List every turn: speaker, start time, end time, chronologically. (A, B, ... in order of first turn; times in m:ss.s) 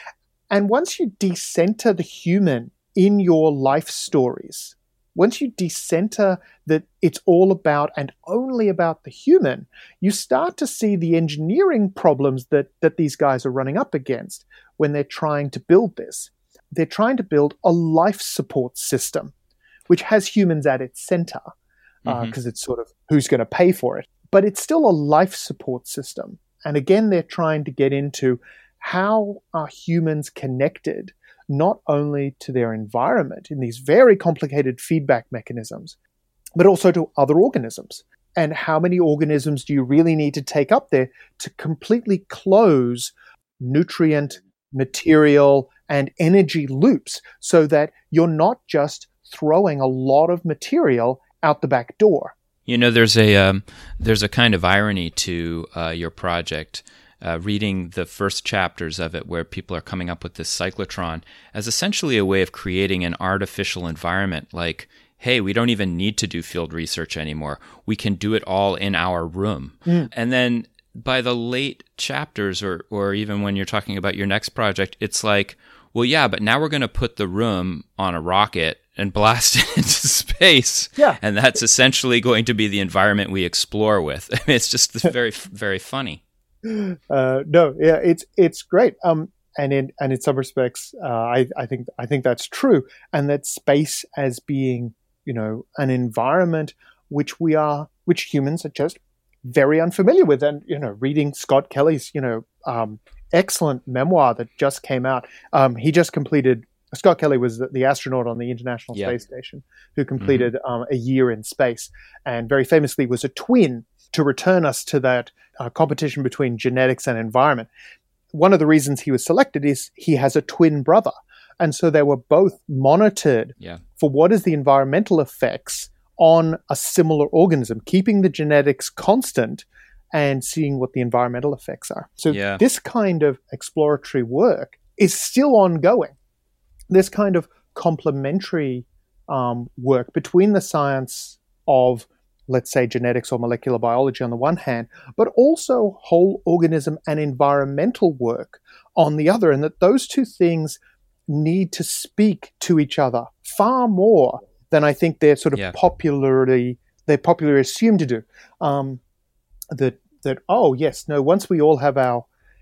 0:00.5-0:19.3 A
0:19.9-0:21.5 A
0:22.0-0:22.4 B
0:22.1-0:36.0 A
0:36.6-0:52.4 A
0:52.7-1:26.2 B
1:26.6-1:57.7 A
1:50.2-1:50.5 B
1:58.3-2:16.2 A
2:12.3-2:12.6 B
2:16.9-2:39.0 A
2:39.7-2:42.3 A